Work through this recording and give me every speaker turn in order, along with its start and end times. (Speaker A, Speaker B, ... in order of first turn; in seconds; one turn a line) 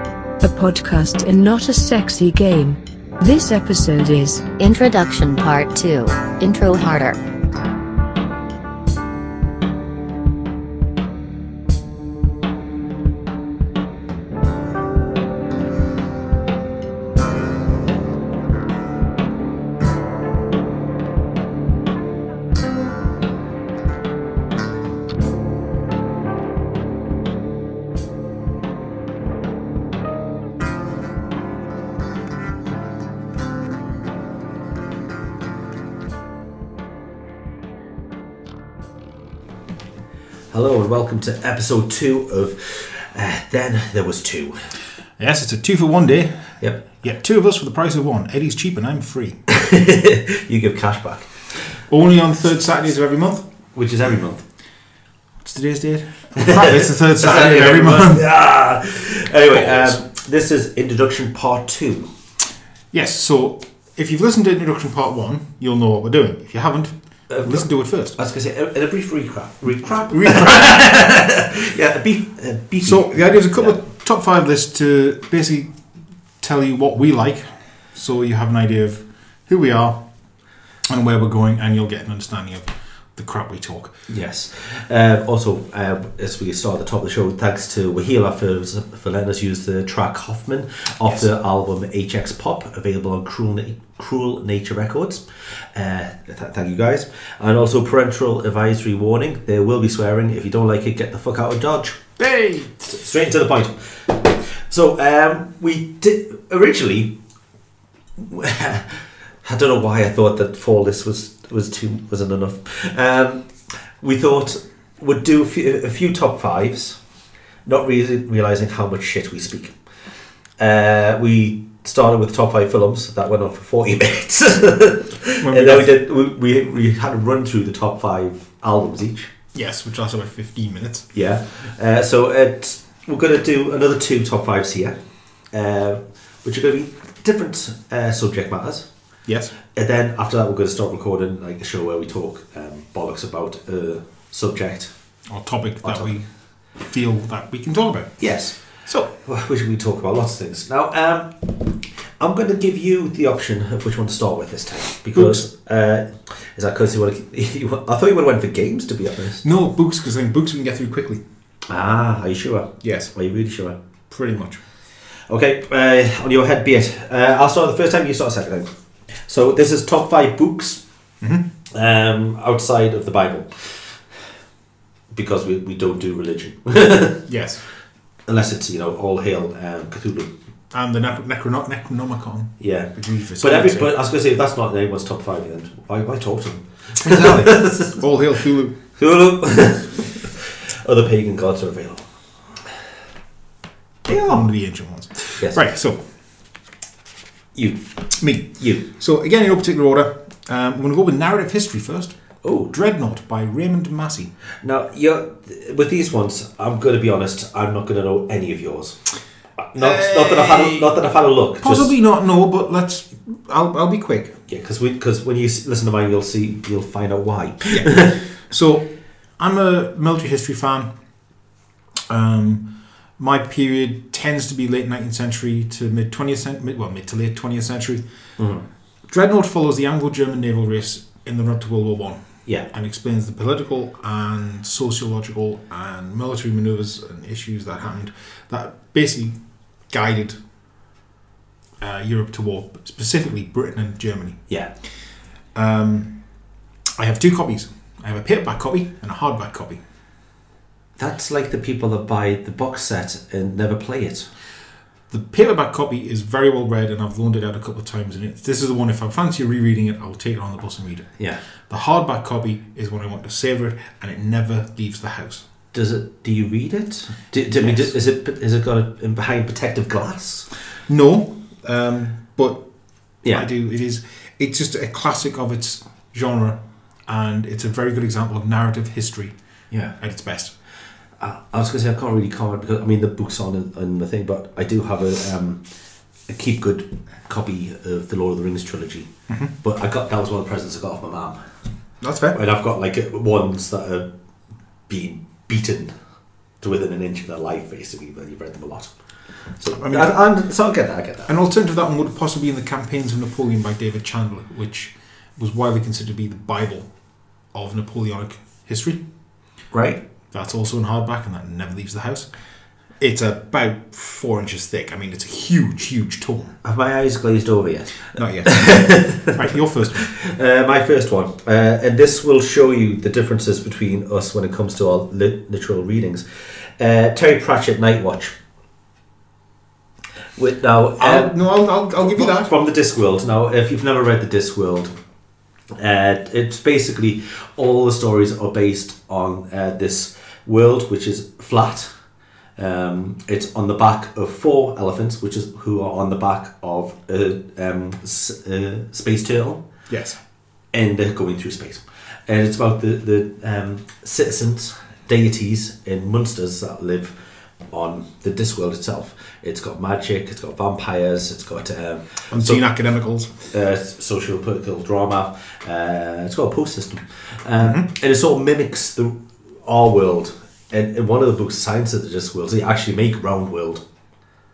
Speaker A: 0.4-4.5
Speaker B: 4.6-7.2
Speaker C: 40.5-44.7
Speaker D: 45.2-49.4
Speaker C: 49.5-51.3
Speaker D: 51.9-53.5
Speaker C: 53.7-54.4
Speaker D: 55.4-58.3
Speaker C: 56.3-62.1
Speaker D: 59.5-60.0
Speaker D: 62.9-68.2
Speaker C: 67.3-73.8
Speaker D: 70.1-70.8
Speaker D: 72.8-75.7
Speaker D: 76.4-80.0
Speaker D: 80.8-83.9
Speaker C: 84.1-102.1
Speaker D: 102.2-102.8
Speaker C: 102.8-107.2
Speaker C: 108.2-117.0
Speaker C: 117.7-119.7
Speaker C: 120.6-129.3
Speaker D: 125.4-126.0
Speaker D: 129.5-131.1
Speaker C: 131.1-135.0
Speaker C: 135.5-138.9
Speaker D: 139.2-139.5
Speaker C: 139.7-144.9
Speaker D: 145.3-146.3
Speaker C: 145.8-146.1
Speaker D: 146.8-148.2
Speaker C: 148.2-148.6
Speaker D: 148.8-149.1
Speaker C: 149.1-159.4
Speaker D: 155.1-155.4
Speaker D: 159.4-161.2
Speaker C: 161.7-163.8
Speaker D: 162.8-163.1
Speaker D: 164.1-164.6
Speaker C: 165.3-168.7
Speaker C: 169.2-170.8
Speaker D: 171.2-171.4
Speaker C: 171.7-173.9
Speaker C: 175.1-177.3
Speaker D: 177.3-177.6
Speaker C: 178.3-180.3
Speaker D: 180.7-183.9
Speaker C: 182.6-188.0
Speaker D: 187.0-188.8
Speaker C: 188.9-192.1
Speaker C: 194.1-194.4
Speaker D: 194.1-196.0
Speaker C: 195.4-195.6
Speaker C: 197.5-197.8
Speaker D: 198.2-202.2
Speaker C: 198.6-198.8
Speaker C: 202.4-202.7
Speaker D: 202.7-204.3
Speaker C: 204.6-209.0
Speaker C: 209.6-211.9
Speaker D: 209.8-210.9
Speaker D: 211.6-214.3
Speaker C: 214.5-218.2
Speaker D: 217.7-220.9
Speaker D: 222.1-228.0
Speaker C: 228.4-228.7
Speaker D: 229.1-239.3
Speaker D: 239.9-240.4
Speaker D: 241.8-244.4
Speaker D: 245.5-246.2
Speaker D: 247.0-249.8
Speaker C: 251.0-254.3
Speaker D: 255.1-261.1
Speaker D: 261.7-265.4
Speaker C: 265.7-270.5
Speaker D: 267.5-267.9
Speaker D: 270.9-272.6
Speaker D: 273.3-279.3
Speaker C: 279.7-279.9
Speaker D: 280.0-280.5
Speaker C: 281.2-285.6
Speaker C: 286.3-289.1
Speaker C: 289.6-291.4
Speaker D: 292.0-292.4
Speaker C: 292.3-294.1
Speaker C: 294.9-295.9
Speaker C: 296.6-298.9
Speaker C: 299.6-301.3
Speaker D: 299.8-300.1
Speaker D: 301.3-306.9
Speaker D: 307.5-309.0
Speaker C: 309.7-310.0
Speaker D: 310.3-312.3
Speaker D: 313.0-316.6
Speaker C: 316.6-326.2
Speaker D: 318.1-320.1
Speaker C: 326.8-328.3
Speaker C: 330.4-331.3
Speaker D: 331.0-332.5
Speaker C: 332.1-334.9
Speaker C: 335.7-341.9
Speaker C: 342.6-349.6
Speaker D: 349.9-350.2
Speaker C: 350.7-357.1
Speaker C: 357.7-362.6
Speaker D: 362.3-363.3
Speaker C: 363.5-373.8
Speaker D: 367.6-367.9